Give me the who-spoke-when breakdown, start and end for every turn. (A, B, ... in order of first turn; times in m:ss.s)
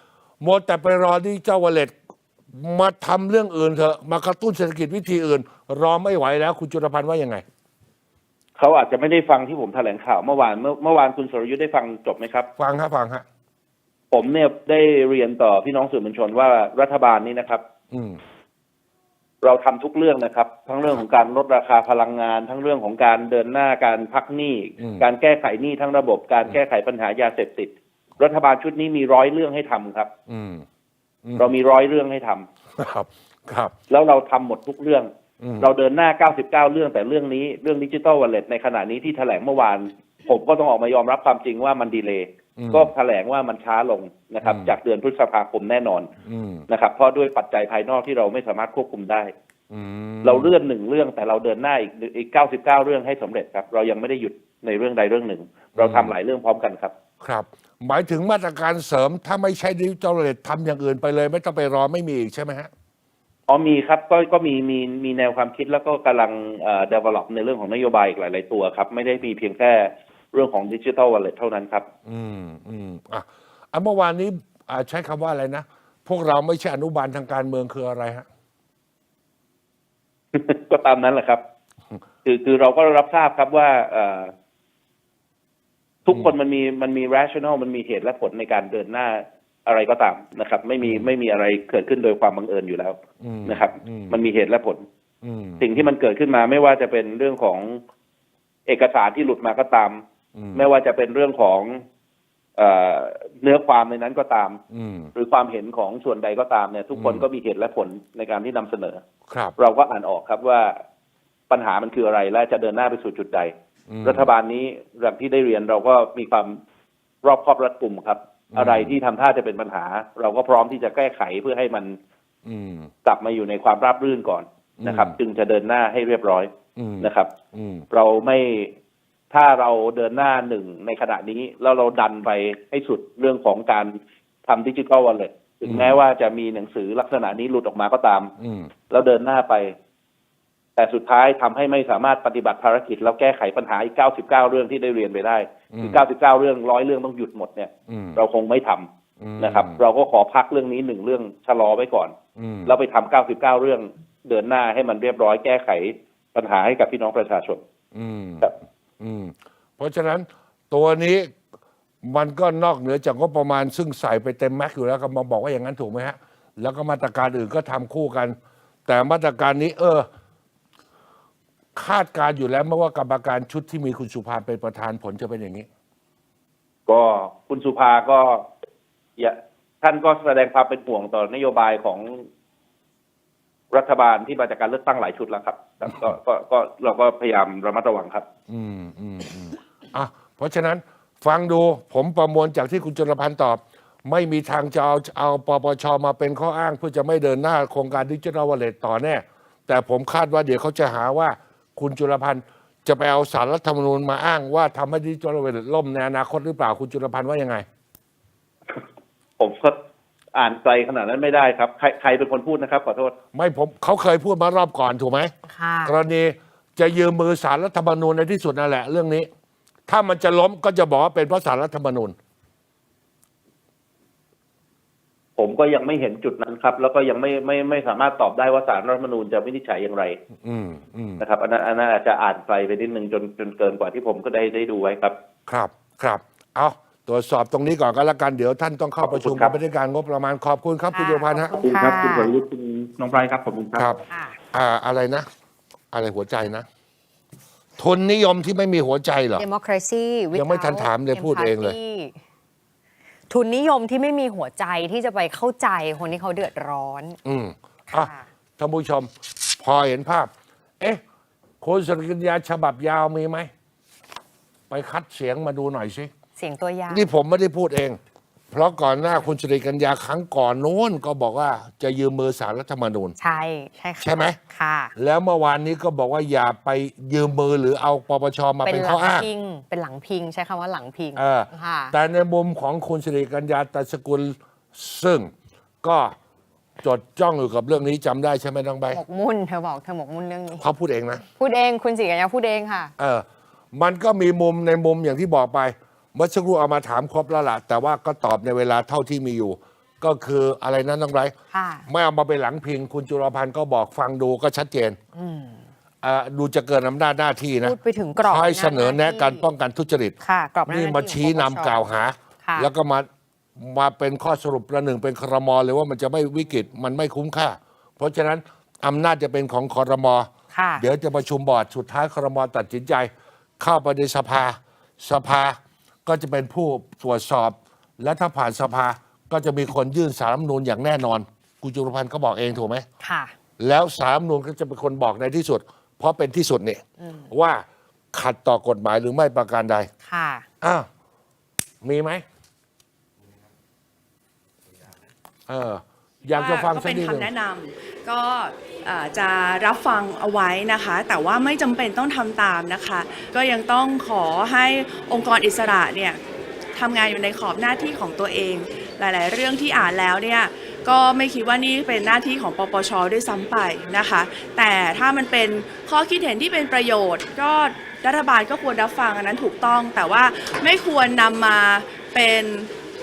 0:00.4-0:01.9 A
0:02.5-0:07.4 A
0:08.6-0:12.5 B
0:12.6-0:13.2 A
0:14.1-0:17.6 B
0:17.9-0:18.2 A
0:19.4-0:30.1 B
0:24.8-0:25.1 A
0:30.3-0:30.6 A
0:31.2-0:31.5 A
0:31.4-0:32.5 B
0:32.8-0:33.7 A
0:33.9-0:35.1 B
0:35.4-0:35.7 A
0:35.6-0:46.1 B
0:42.6-0:42.9 A
0:44.4-0:44.7 A
0:46.2-0:46.6 A
0:46.7-0:49.3 B
0:49.7-0:50.5 A
0:50.2-0:56.9 B
0:55.8-0:56.1 A
0:57.2-1:02.7 A
1:03.5-1:11.9 B
1:12.1-1:18.3 A
1:20.3-1:21.4 B
1:22.2-1:24.3 B
1:26.1-1:34.8 B
1:26.1-1:26.3 A
1:30.8-1:31.1 A
1:33.2-1:34.2 A
1:35.2-1:35.8 A
1:35.6-1:37.8 B
1:38.7-1:40.0 B
1:40.4-1:40.7 A
1:40.5-1:41.8 B
1:42.6-1:44.6 B
1:44.7-1:45.1 A
1:45.2-1:49.0 B
1:46.9-1:47.2 A
1:49.3-1:49.6 A
1:49.6-1:50.8 B
1:51.5-1:53.5 B
1:53.9-1:54.3 A
1:54.0-1:56.6 B
1:57.2-2:02.0 B
1:58.5-1:59.0 A
2:02.4-2:02.9 A
2:03.0-2:06.5 B
2:04.8-2:05.2 A
2:06.8-2:07.8 A
2:07.0-2:07.3 B
2:07.9-2:08.7 B
2:09.3-2:13.9 B
2:14.5-2:18.3 B
2:15.6-2:16.0 A
2:18.4-2:18.7 A
2:18.9-2:19.7 B
2:20.8-2:28.9 B
2:25.7-2:26.0 A
2:27.9-2:28.2 A
2:29.2-2:29.8 A
2:29.4-2:32.2 B
2:32.4-2:32.7 A
2:32.7-2:37.6 B
2:37.9-2:41.3 A
2:42.0-2:50.1 A
2:51.8-2:55.7 A
2:56.9-2:58.4 B
2:59.2-3:02.3 B
3:03.7-3:08.3 B
3:08.5-3:27.6 A
3:29.4-3:29.8 B
3:30.3-3:33.1 B
3:33.3-3:35.3 A
3:35.5-3:36.0 C
3:35.8-3:39.3 A
3:39.9-3:42.2 A
3:45.4-3:50.2 B
3:50.4-3:51.2 A
3:51.2-3:55.2 B
3:55.5-4:01.6 A
3:59.0-3:59.6 B
4:00.9-4:02.3 C
4:01.6-4:04.0 B
4:03.8-4:04.0 A
4:04.1-4:04.4 C
4:04.5-4:05.3 A
4:05.9-4:06.7 A
4:07.8-4:09.4 A
4:09.4-4:12.2 C
4:10.3-4:11.8 A
4:13.3-4:17.2 C
4:17.2-4:21.0 A
4:17.9-4:18.3 C
4:21.6-4:23.5 A
4:24.7-4:26.1 A
4:26.4-4:27.1 C
4:26.9-4:28.0 A
4:28.5-4:33.2 A
4:33.2-4:34.9 C
4:34.0-4:34.4 A
4:35.0-4:39.3 A
4:38.6-4:41.9 C
4:41.2-4:45.3 A
4:45.8-4:46.2 A
4:46.8-4:49.0 A
4:48.9-4:50.6 C
4:50.6-4:51.2 A
4:51.3-4:52.9 C
4:53.0-5:01.3 A
5:01.5-5:01.9 C
5:01.9-5:05.0 A
5:05.2-5:05.6 C
5:06.0-5:10.2 A
5:07.6-5:09.4 C
5:10.2-5:11.9 C
5:10.7-5:32.8 A
5:12.4-5:12.7 C
5:20.5-5:20.8 C
5:33.0-5:33.3 C
5:33.6-5:39.9 A
5:37.0-5:37.3 C
5:40.0-5:40.5 C
5:40.6-5:40.9 A
5:41.8-5:42.2 A
5:45.5-5:47.3 A
5:46.3-5:56.2 D
5:56.8-6:12.7 D